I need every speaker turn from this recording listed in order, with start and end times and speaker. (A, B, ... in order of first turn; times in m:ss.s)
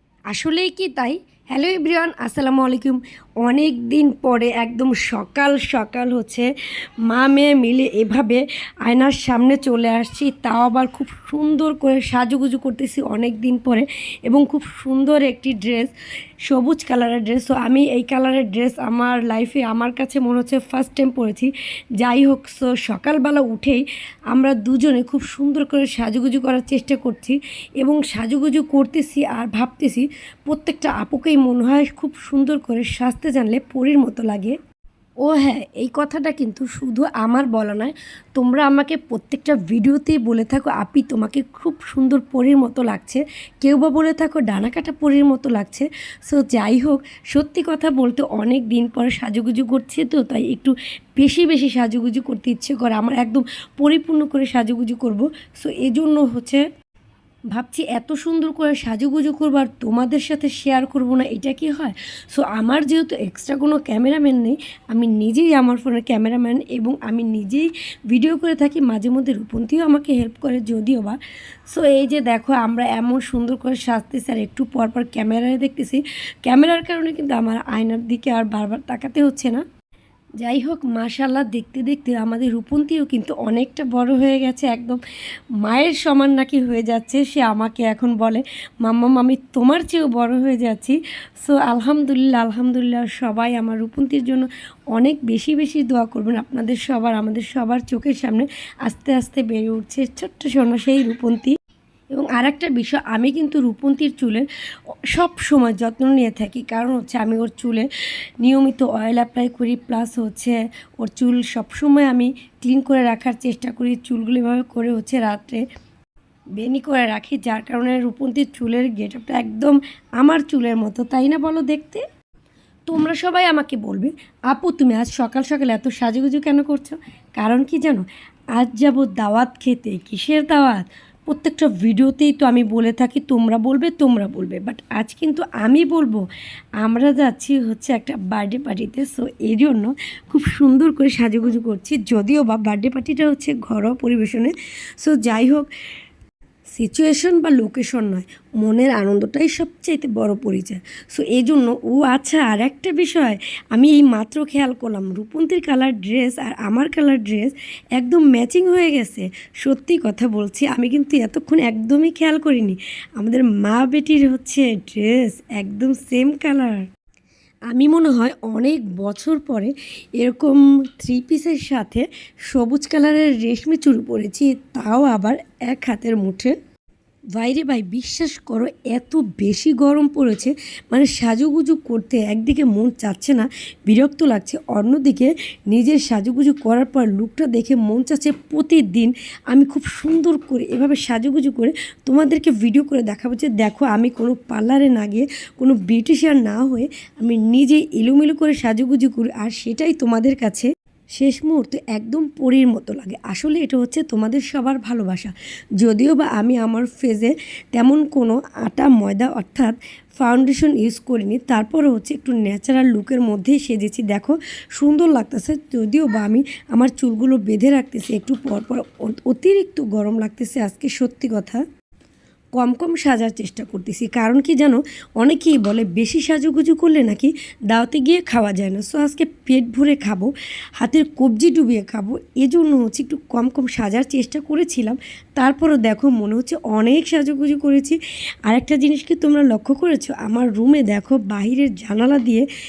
0:00.3-0:06.5 A
0:07.1-0:15.9 A
0:16.5-0:34.6 A
0:35.2-0:56.6 A
0:57.5-1:11.2 A
1:11.7-1:19.6 A
1:20.4-1:25.0 A
1:25.6-1:41.5 A
1:42.1-1:44.5 A
1:45.1-1:47.9 A
1:48.4-1:55.6 A
1:56.6-2:02.0 A
2:02.9-2:16.2 A
2:16.8-2:25.7 A
2:26.7-2:46.9 A
2:47.7-2:56.6 A
2:57.3-3:41.6 A
3:42.6-4:02.4 A